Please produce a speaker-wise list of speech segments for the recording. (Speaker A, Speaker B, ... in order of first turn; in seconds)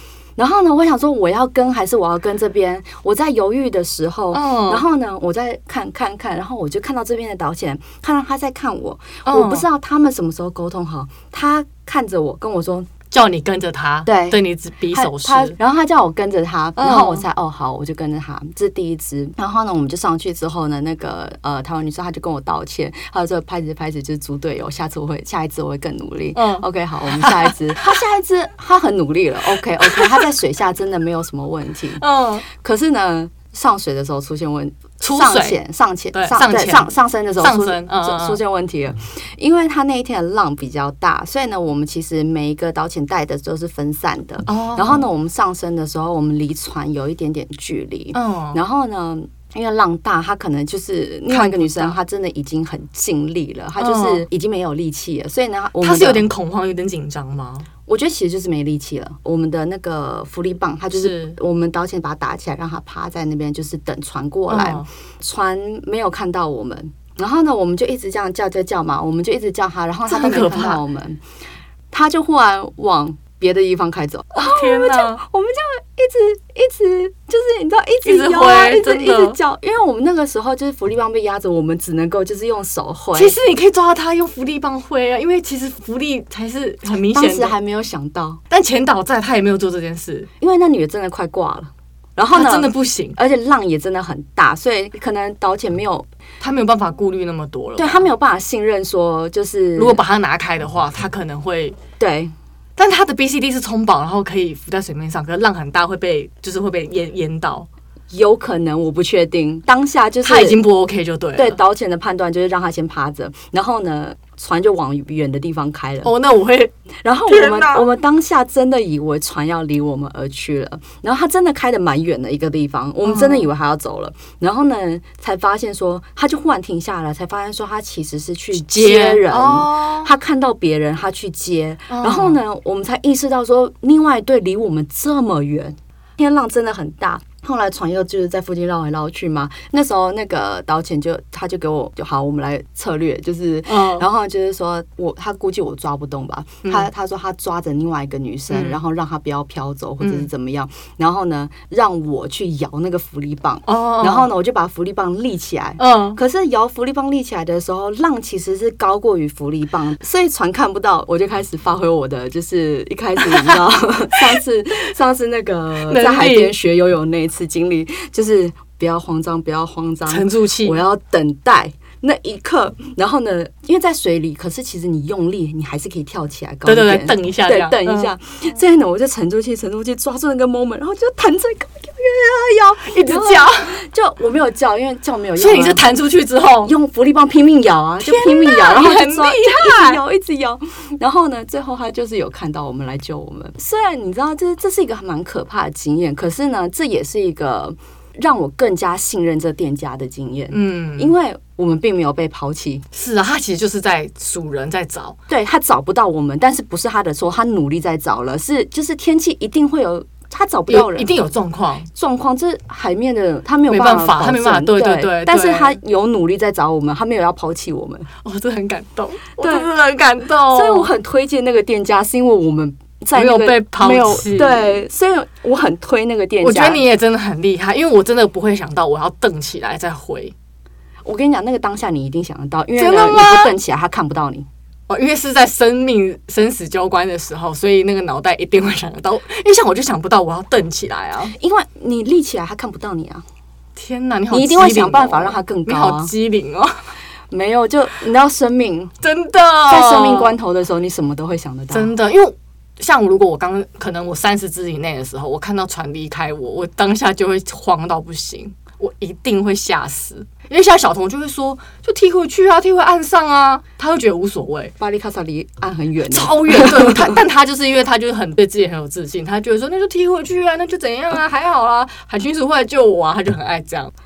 Speaker A: 0.4-12.9, 14.1-14.4, 14.9-56.3, 57.9-71.2, 71.9-83.4, 87.1-88.4, 90.4-96.1, 97.8-100.0, 102.0-102.3, 108.1-110.6, 111.3-116.1, 117.0-185.8, 186.6-202.9, 205.3-211.2, 211.9-218.1, 219.4-219.7, 220.5-226.8, 231.1-234.4, 241.3-243.2, 244.3-246.1, 247.3-248.9, 249.7-251.9, 264.8-267.2
Speaker B: 4.3-4.8, 9.2-9.7, 13.1-15.6, 16.8-17.2, 26.4-26.6, 27.2-27.9, 29.8-30.2, 32.0-32.4, 35.0-35.6, 36.1-38.4, 44.5-45.0, 48.1-48.6, 51.3-52.0, 53.8-54.2, 55.8-57.7, 60.9-61.4, 64.5-64.9, 70.1-70.8, 74.3-75.2, 78.0-79.4, 83.1-87.5, 88.5-90.3, 92.3-93.2, 96.4-98.1, 99.8-101.8, 102.8-107.7, 110.2-111.6, 116.0-116.7, 117.3-117.9, 123.0-123.5, 128.6-130.1, 131.9-132.4, 143.7-144.1, 146.6-146.9, 148.5-148.8, 150.0-150.3, 153.7-154.3, 155.8-156.2, 165.8-166.6, 170.1-170.8, 176.7-178.1, 182.9-183.8, 185.4-186.7, 188.0-190.0, 200.5-201.1, 202.9-205.2, 210.7-211.9, 213.7-215.8, 218.2-220.9, 223.1-224.8, 226.4-230.3, 232.8-233.6, 234.9-241.3, 243.8-246.8, 249.0-250.4, 251.7-264.7, 266.1-273.9